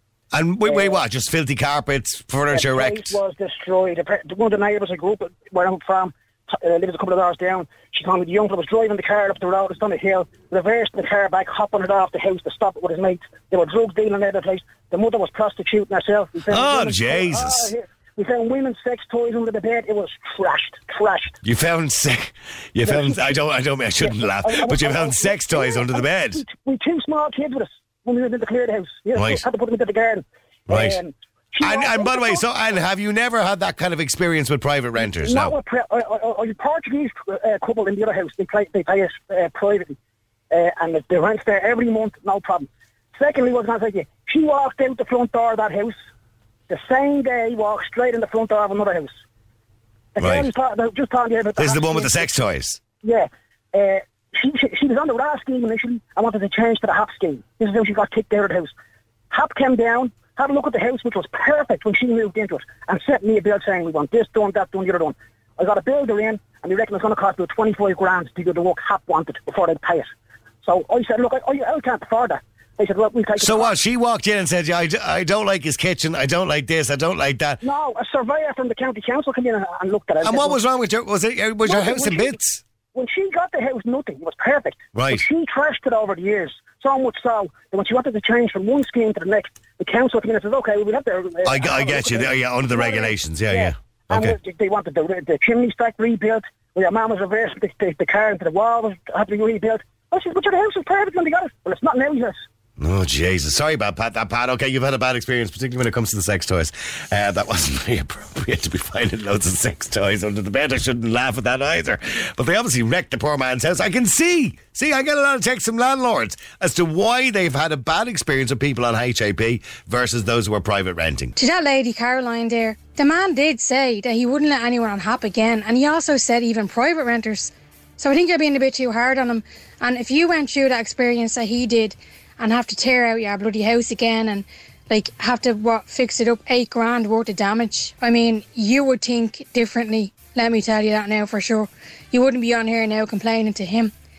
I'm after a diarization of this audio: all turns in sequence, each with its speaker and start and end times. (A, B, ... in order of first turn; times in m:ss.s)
0:00.3-0:03.2 A
0:00.6-0:01.0 B
0:02.5-0:21.4 B
0:16.5-0:17.7 A
0:21.4-0:26.4 A
0:22.8-0:23.3 B
0:24.0-0:32.4 B
0:29.2-0:29.4 A
0:30.7-0:31.0 A
0:31.6-0:35.6 A
0:35.0-0:40.0 B
0:40.5-0:46.0 B
0:46.7-0:49.1 B
0:50.2-0:52.3 B
0:50.2-0:50.5 A
0:51.6-0:52.8 A
0:53.0-0:58.7 B
0:59.3-1:13.7 B
1:13.4-1:17.6 A
1:17.6-1:20.6 B
1:20.2-1:22.6 A
1:21.7-1:22.3 B
1:22.9-1:42.4 B
1:25.0-1:25.2 A
1:31.4-1:34.4 A
1:42.8-2:01.4 A
2:01.4-2:23.9 C